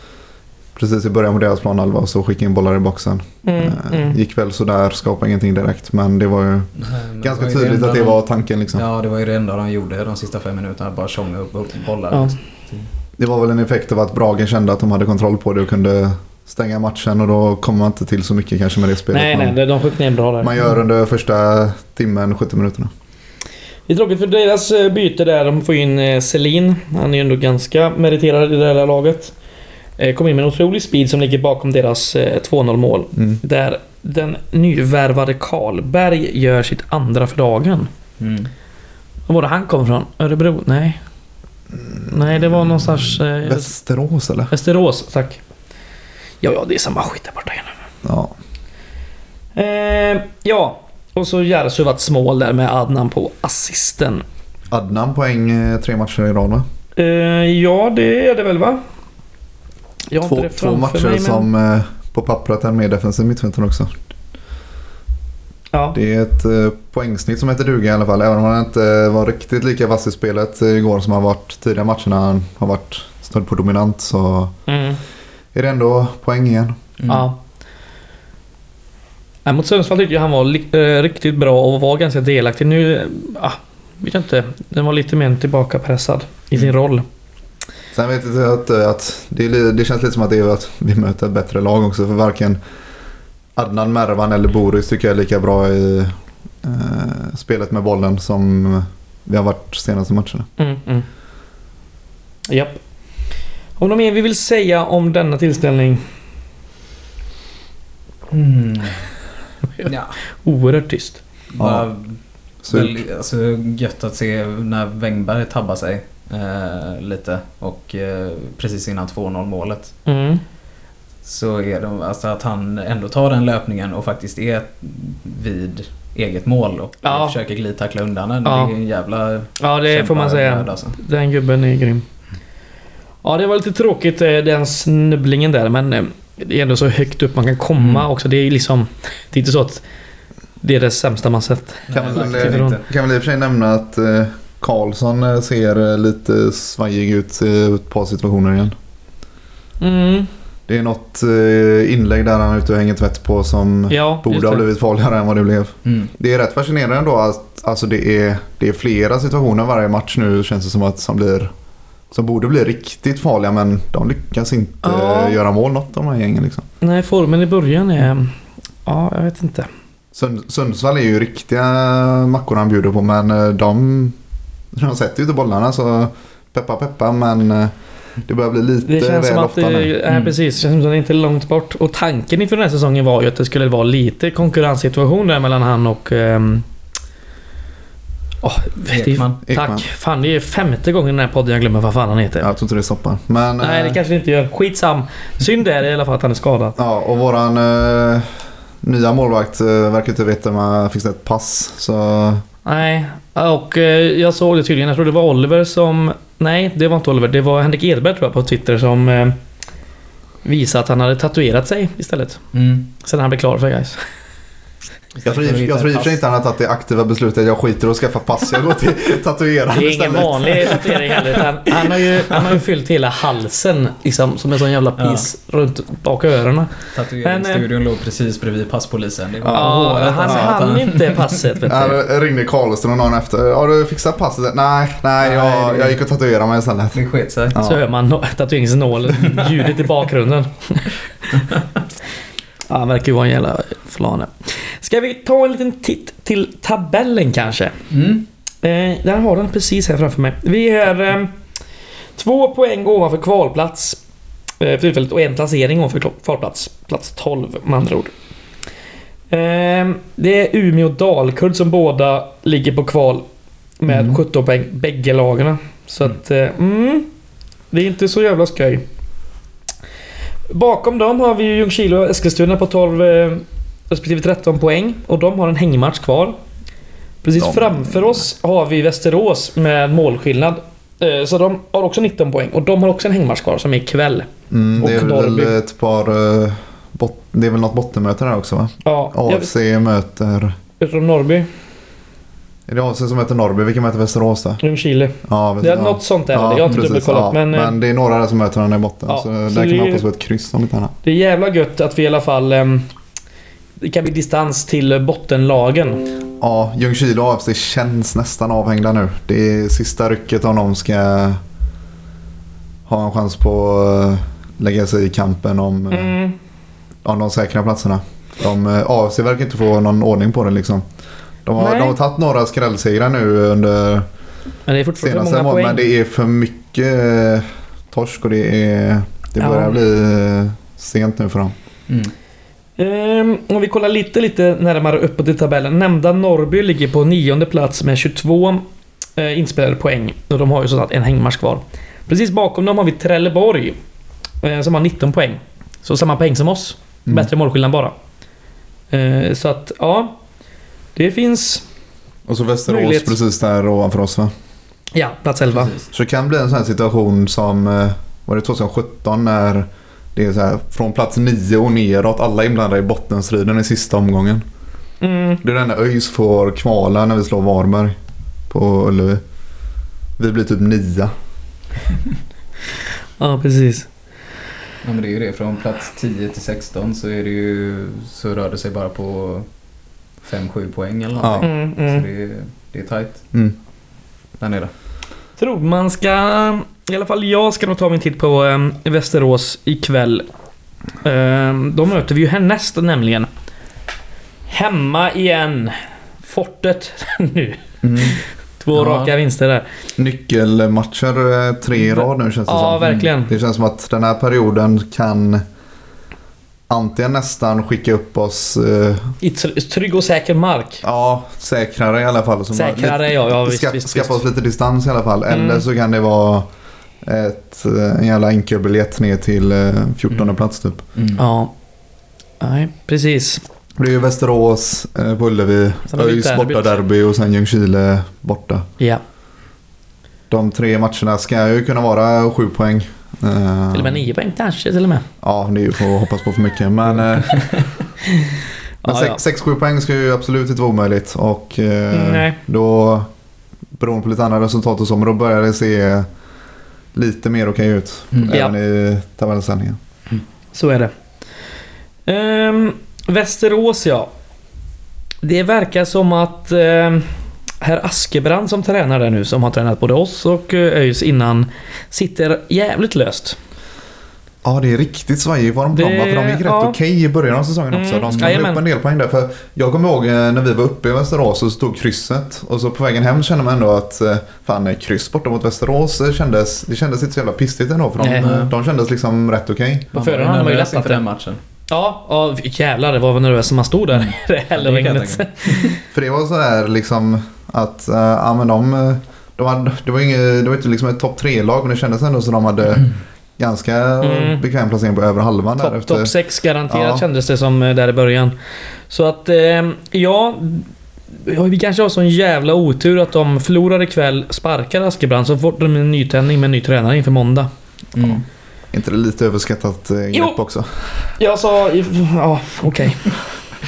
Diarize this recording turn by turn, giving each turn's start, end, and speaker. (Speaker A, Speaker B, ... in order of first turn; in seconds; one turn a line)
Speaker A: 0.8-8.8
Speaker B: 3.4-4.2
Speaker C: 6.8-8.2
Speaker C: 8.7-12.9
Speaker A: 13.2-19.6
Speaker B: 19.1-20.5
Speaker A: 20.4-22.9
Speaker B: 23.9-29.3
Speaker B: 30.0-37.9
Speaker C: 38.2-38.5
Speaker B: 39.3-41.0
Speaker A: 41.9-44.5
Speaker B: 42.1-43.7
Speaker B: 44.5-45.4
Speaker B: 46.4-47.7
Speaker A: 48.0-48.4
Speaker B: 49.5-54.2
Speaker A: 54.7-56.6
Speaker B: 57.0-58.8
Speaker B: 60.1-61.5
Speaker A: 60.2-64.0
Speaker A: 65.9-74.5
Speaker B: 74.7-75.0
Speaker A: 75.5-76.8
Speaker C: 77.0-77.3
Speaker B: 77.1-77.4
Speaker B: 79.5-87.0
Speaker A: 87.9-92.6
Speaker A: 93.6-100.5
Speaker B: 100.6-101.1
Speaker B: 102.5-102.8
Speaker B: 103.8-106.0
Speaker C: 108.3-109.1
Speaker C: 109.9-110.2
Speaker B: 110.4-111.2
Speaker C: 111.6-119.9
Speaker A: 111.6-111.9
Speaker A: 112.7-113.0
Speaker B: 120.1-120.4
Speaker C: 121.2-131.0
Speaker B: 127.0-127.4
Speaker B: 128.4-128.7
Speaker B: 129.6-132.0
Speaker B: 133.2-139.8
Speaker C: 137.8-138.1
Speaker B: 140.6-142.8
Speaker C: 141.9-142.8
Speaker A: 141.9-148.8
Speaker B: 149.8-150.3
Speaker A: 150.7-161.5
Speaker B: 153.9-154.7
Speaker C: 155.8-156.1
Speaker A: 162.1-166.7
Speaker B: 164.8-165.4
Speaker B: 166.8-168.3
Speaker B: 168.9-169.7
Speaker A: 170.1-174.2
Speaker A: 174.7-177.7
Speaker A: 178.3-179.9
Speaker B: 178.8-186.7
Speaker C: 180.1-180.3
Speaker B: 188.4-192.5
Speaker C: 188.9-189.4
Speaker A: 189.4-189.8
Speaker A: 192.4-194.0
Speaker B: 193.6-196.8
Speaker A: 196.8-198.3
Speaker A: 198.8-202.4
Speaker B: 202.7-209.4
Speaker B: 210.4-212.4
Speaker C: 212.5-212.9
Speaker B: 213.0-214.0
Speaker C: 215.2-216.2
Speaker A: 215.2-220.8
Speaker B: 219.7-227.7
Speaker C: 220.7-222.6
Speaker C: 225.0-225.3
Speaker C: 226.9-231.6
Speaker A: 229.4-230.5
Speaker B: 229.5-232.0
Speaker A: 231.6-237.0
Speaker C: 235.2-236.0
Speaker C: 236.9-237.6
Speaker A: 237.5-237.8
Speaker B: 237.6-241.0
Speaker C: 239.1-239.8
Speaker C: 241.3-241.8
Speaker B: 242.7-247.7
Speaker C: 247.9-248.3
Speaker B: 248.6-251.3
Speaker B: 252.2-254.0
Speaker B: 254.6-258.1
Speaker B: 259.3-263.3
Speaker B: 263.8-267.1
Speaker A: 263.9-264.2
Speaker B: 267.7-268.9
Speaker B: 270.5-276.4
Speaker B: 277.2-285.5
Speaker A: 277.4-278.2
Speaker A: 284.5-290.6
Speaker B: 288.9-289.5
Speaker B: 290.8-291.5
Speaker A: 292.7-294.6
Speaker B: 294.6-297.8
Speaker A: 295.3-300.9
Speaker B: 299.1-300.0
Speaker B: 301.0-302.9
Speaker B: 303.8-306.0
Speaker A: 306.4-311.4
Speaker A: 312.9-316.2
Speaker B: 315.9-316.3
Speaker A: 317.0-320.9
Speaker A: 321.4-324.1
Speaker B: 321.6-322.0
Speaker B: 324.7-325.9
Speaker A: 325.0-331.6
Speaker B: 329.4-329.8
Speaker B: 332.8-338.6
Speaker B: 339.2-343.8
Speaker B: 344.4-347.9
Speaker B: 348.9-350.1
Speaker B: 350.9-351.6
Speaker A: 352.3-354.3
Speaker B: 352.7-353.2
Speaker B: 354.9-355.7
Speaker C: 355.5-355.8
Speaker A: 355.9-364.4
Speaker B: 365.0-365.4
Speaker A: 365.4-368.0
Speaker A: 368.5-369.2
Speaker A: 370.2-371.1
Speaker B: 373.2-373.9
Speaker C: 374.8-379.5
Speaker C: 380.2-383.2
Speaker A: 381.2-381.5
Speaker B: 381.4-382.1
Speaker C: 384.4-384.7
Speaker B: 385.4-390.2
Speaker B: 391.0-393.3
Speaker B: 394.5-399.6
Speaker A: 397.8-398.2
Speaker C: 398.7-399.1
Speaker A: 400.0-405.4
Speaker B: 401.8-403.3
Speaker C: 402.8-403.1
Speaker A: 406.7-409.1
Speaker B: 409.2-410.8
Speaker A: 410.8-416.5
Speaker B: 412.5-414.2
Speaker B: 415.3-415.6
Speaker A: 417.0-420.9
Speaker C: 420.9-421.2
Speaker B: 421.2-421.5
Speaker B: 422.4-423.4
Speaker A: 423.8-428.7
Speaker B: 425.9-426.7
Speaker A: 430.3-434.0
Speaker B: 433.7-435.1
Speaker A: 435.2-437.5
Speaker C: 437.4-437.6
Speaker B: 438.1-439.2
Speaker A: 438.8-443.1
Speaker B: 441.9-442.4
Speaker A: 443.8-446.1
Speaker A: 446.9-449.8
Speaker C: 448.1-448.4
Speaker B: 450.5-450.9
Speaker B: 452.1-454.1
Speaker B: 455.2-463.4
Speaker A: 464.4-479.9
Speaker B: 465.7-466.8
Speaker B: 467.7-468.6
Speaker C: 468.1-468.4
Speaker B: 478.0-478.4
Speaker C: 478.1-478.5
Speaker C: 479.9-481.4
Speaker B: 479.9-481.0
Speaker B: 481.7-485.8
Speaker C: 483.9-485.8
Speaker A: 485.9-496.1
Speaker B: 494.0-494.4
Speaker B: 495.6-498.3
Speaker A: 496.7-497.0
Speaker B: 498.9-507.5
Speaker C: 508.0-508.2
Speaker A: 508.7-511.1
Speaker B: 511.2-513.1